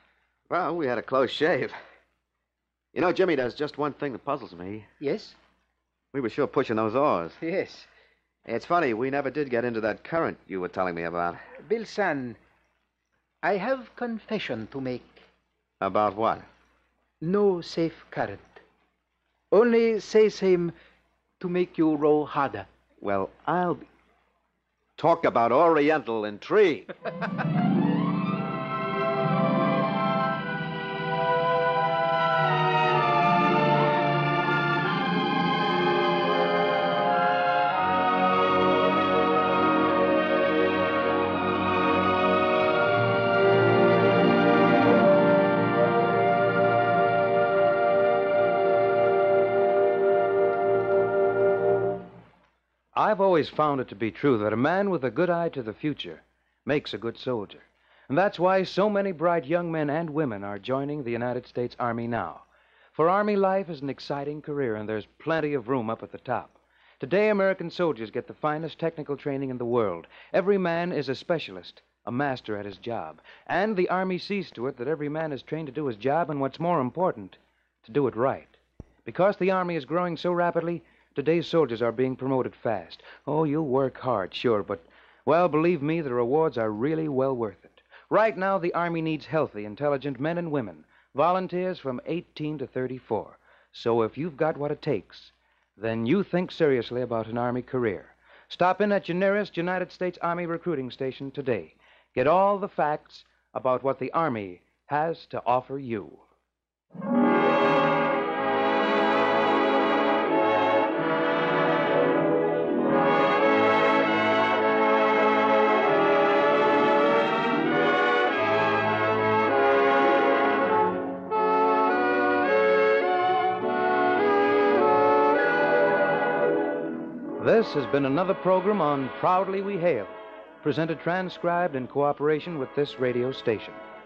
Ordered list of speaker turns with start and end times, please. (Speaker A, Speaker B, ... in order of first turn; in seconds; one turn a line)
Speaker A: 0.5-1.7
Speaker A: 2.9-4.9
Speaker B: 5.0-5.4
Speaker A: 6.1-7.4
Speaker B: 7.4-7.9
Speaker A: 8.4-11.4
Speaker B: 11.6-12.4
Speaker B: 13.4-15.2
Speaker A: 15.8-16.4
Speaker B: 17.2-18.6
Speaker B: 19.5-20.7
Speaker B: 21.4-22.7
Speaker A: 23.0-23.9
Speaker A: 25.0-26.9
Speaker C: 53.0-106.2
Speaker C: 127.4-133.8